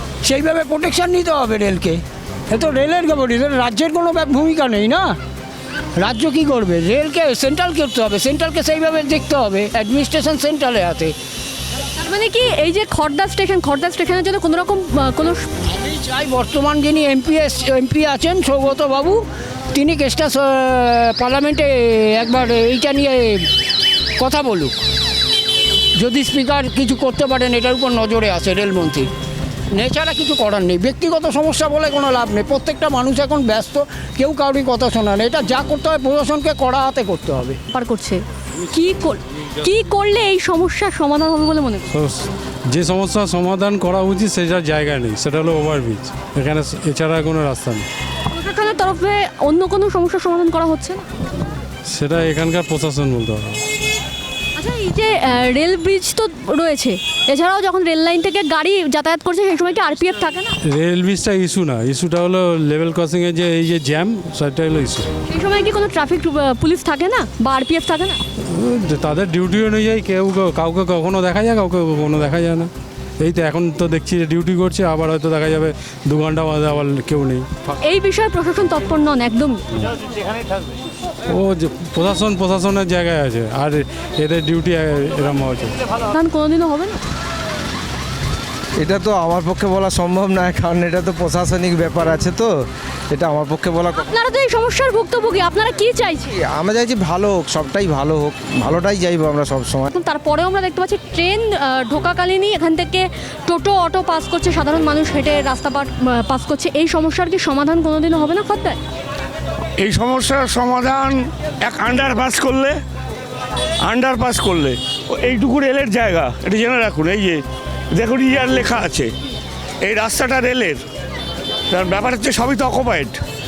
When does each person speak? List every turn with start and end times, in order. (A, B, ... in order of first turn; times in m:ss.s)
0:00.2-0:05.2 A
0:06.0-0:11.1 A
0:12.0-0:15.4 B
0:15.7-0:23.4 A
0:24.2-0:24.8 A
0:26.0-0:29.1 A
0:29.8-0:37.6 A
0:37.7-0:38.2 B
0:38.7-0:41.8 B
0:41.9-0:47.8 C
0:48.3-0:51.0 B
0:51.9-0:53.6 C
0:54.6-1:00.5 B
1:00.7-1:05.1 C
1:05.3-1:08.2 B
1:08.5-1:17.7 C
1:17.8-1:19.6 B
1:21.3-1:25.8 C
1:26.1-1:27.0 B
1:28.8-1:32.5 D
1:33.1-1:34.0 D
1:34.0-1:36.3 B
1:36.4-1:39.9 D
1:40.0-1:48.8 B
1:49.8-1:52.8 E
1:53.9-1:57.4 E
1:57.9-1:59.1 E
1:59.8-2:00.8 E
2:01.7-2:03.2 E